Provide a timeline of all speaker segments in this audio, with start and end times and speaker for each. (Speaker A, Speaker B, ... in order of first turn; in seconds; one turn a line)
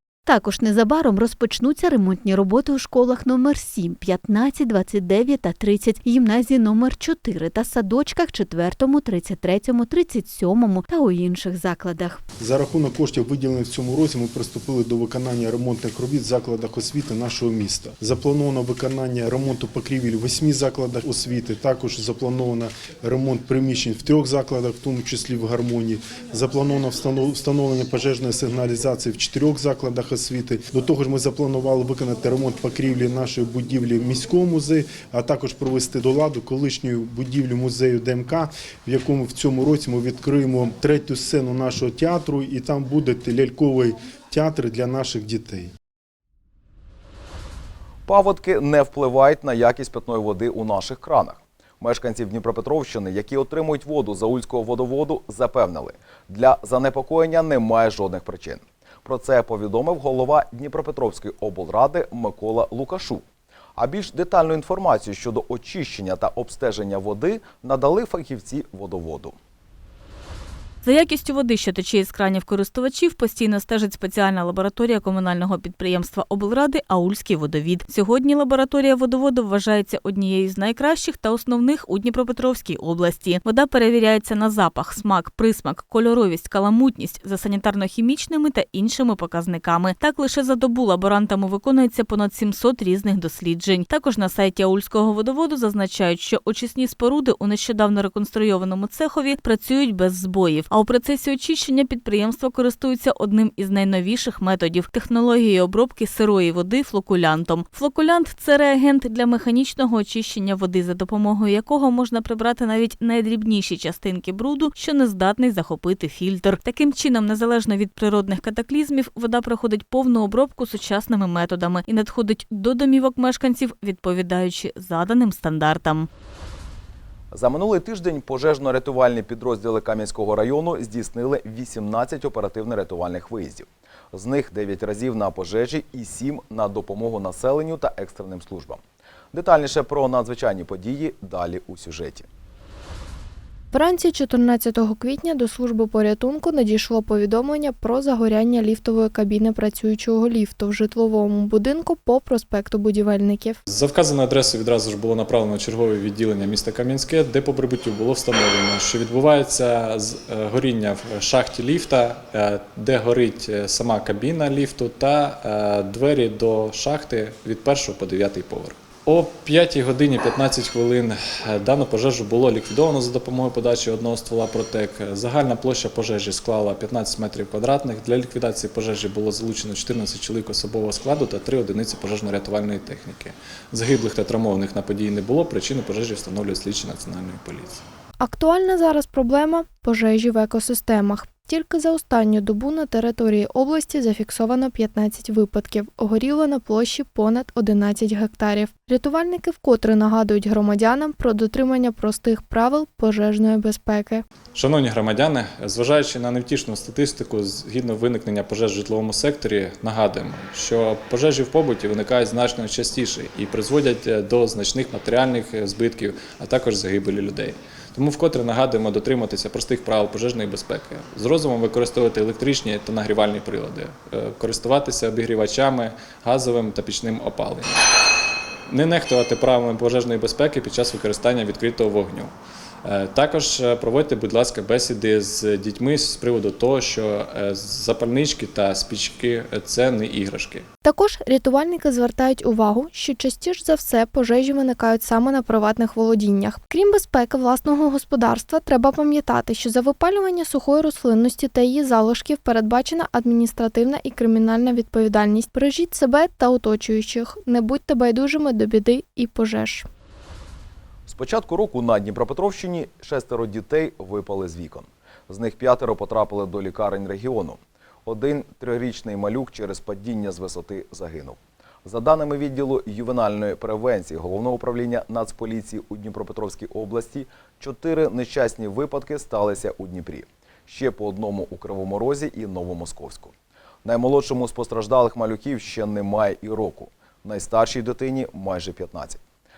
Speaker A: 0.2-12.2
Speaker B: 12.4-45.7
Speaker C: 48.1-63.2
Speaker C: 63.8-69.3
Speaker D: 70.8-126.1
Speaker C: 127.3-138.8
Speaker C: 139.3-142.2
Speaker E: 143.7-153.6
Speaker F: 153.7-187.8
Speaker E: 188.2-204.2
Speaker F: 204.5-227.8
Speaker F: 228.7-232.3
Speaker F: 232.8-240.7
Speaker E: 240.8-259.9
Speaker C: 261.1-283.3
Speaker C: 283.8-289.2